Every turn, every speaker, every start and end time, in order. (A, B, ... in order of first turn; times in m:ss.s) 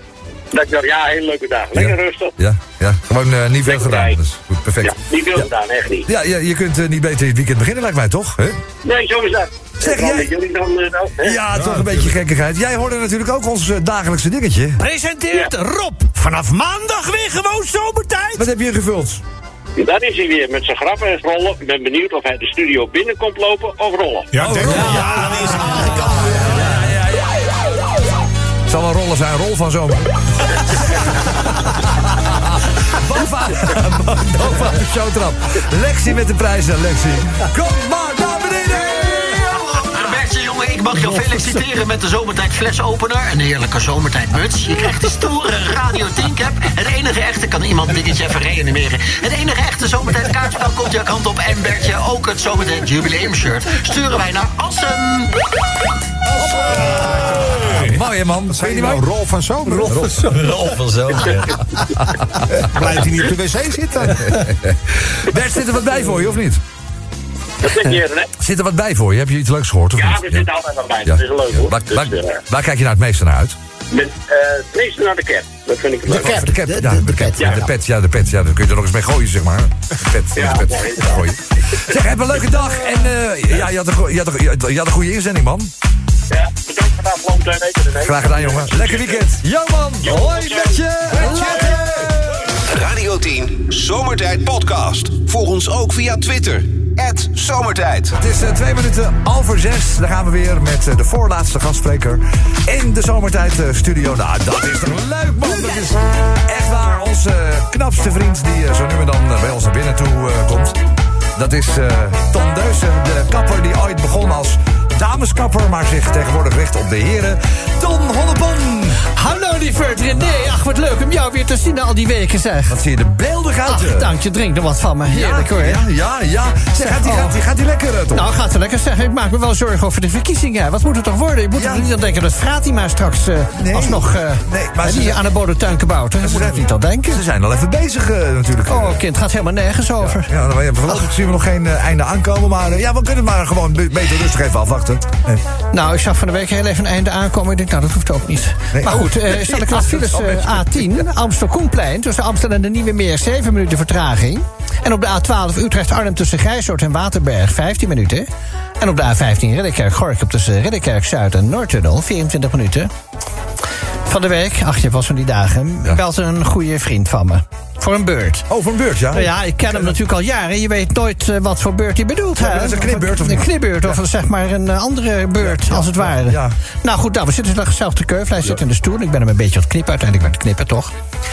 0:00.5-0:02.3 A
0:01.7-0:05.5 B
0:03.6-0:04.2 A
0:04.8-0:06.1 A
0:06.1-0:08.6 B
0:08.8-0:11.4 A
0:09.8-0:10.3 B
0:11.2-0:14.8 B
0:11.5-0:12.0 C
0:14.8-0:18.5 D
0:18.4-0:19.2 B
0:19.8-0:24.3 A
0:24.3-0:25.8 C
0:24.4-0:27.6 B
0:24.6-0:26.7 E
0:28.7-0:39.8 B
0:38.8-0:55.3 F
0:56.4-1:00.2 C
0:56.8-0:59.0 B
0:59.6-1:00.5 B
1:00.2-1:01.6 E
1:02.5-1:04.5 C
1:04.1-1:06.6 B
1:07.6-1:08.3 A
1:08.4-1:10.5 B
1:10.0-1:12.4 A
1:11.0-1:13.6 B
1:13.9-1:16.3 A
1:16.0-1:25.7 B
1:16.1-1:17.7 F
1:17.4-1:17.6 A
1:20.4-1:21.3 A
1:26.3-1:29.2 A
1:28.0-1:32.5 B
1:30.0-1:31.6 A
1:32.7-1:38.2 G
1:38.2-1:50.8 B
1:51.4-1:59.0 B
1:59.1-2:02.8 H
2:02.7-2:04.1 B
2:03.6-2:05.8 H
2:05.1-2:08.3 B
2:06.8-2:07.4 H
2:08.1-2:17.2 H
2:11.5-2:11.9 B
2:13.6-2:15.2 B
2:16.2-2:19.0 B
2:18.7-2:20.3 H
2:20.0-2:25.4 B
2:25.7-2:38.2 H
2:28.7-2:31.0 B
2:38.8-2:42.9 H
2:44.1-2:48.5 H
2:48.5-2:49.9 B
2:49.1-3:00.9 H
2:52.4-2:54.0 B
2:55.4-2:56.5 B